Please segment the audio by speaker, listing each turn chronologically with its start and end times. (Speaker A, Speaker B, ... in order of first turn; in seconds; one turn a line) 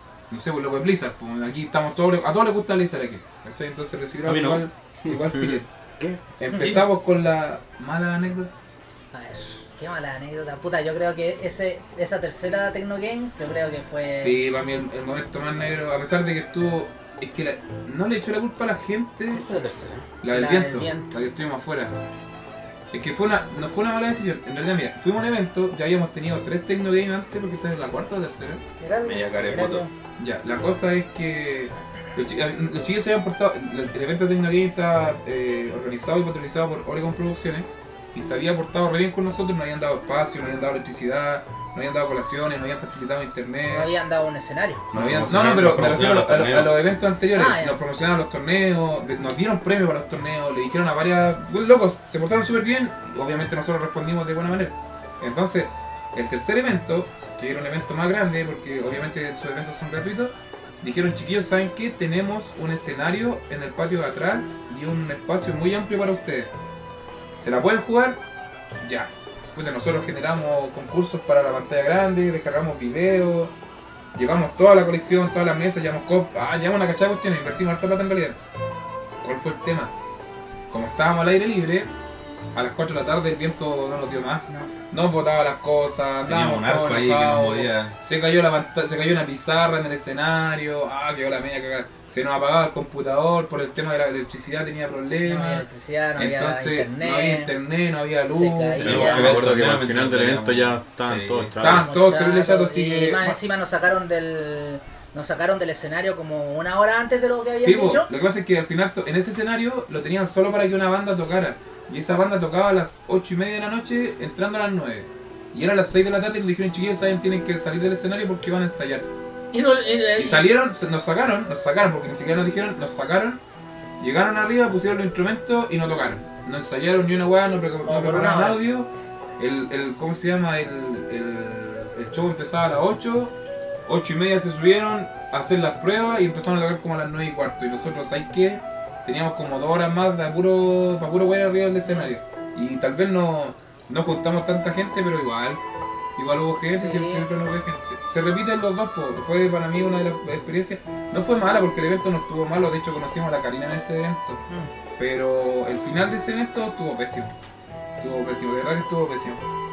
Speaker A: 0.3-5.7
Speaker B: 4.2-5.2
Speaker C: 5.3-6.2
Speaker A: 6.3-8.5
Speaker D: 6.5-6.8
Speaker D: 9.1-14.4
Speaker A: 14.2-19.4
Speaker B: 19.3-20.1
Speaker A: 20.2-21.9
Speaker D: 20.3-21.2
Speaker A: 22.9-28.6
Speaker D: 28.8-29.9
Speaker B: 29.0-29.9
Speaker A: 30.2-43.9
Speaker D: 43.7-44.8
Speaker B: 44.9-46.8
Speaker A: 44.9-66.5
Speaker D: 47.3-47.8
Speaker A: 67.4-68.2
Speaker A: 68.8-73.5
Speaker A: 74.1-78.4
Speaker A: 79.2-79.9
Speaker A: 80.7-81.9
Speaker A: 82.5-99.3
Speaker B: 86.2-87.9
Speaker D: 95.2-97.5
Speaker D: 98.3-99.4
Speaker B: 98.8-101.8
Speaker C: 98.8-101.9
Speaker A: 101.6-103.4
Speaker D: 101.6-108.1
Speaker A: 107.6-119.0
Speaker D: 119.5-120.5
Speaker A: 120.2-123.4
Speaker A: 124.0-133.3
Speaker D: 127.8-128.6
Speaker A: 133.8-145.6
Speaker A: 146.2-154.4
Speaker D: 146.8-147.3
Speaker A: 155.0-157.3
Speaker A: 158.0-159.4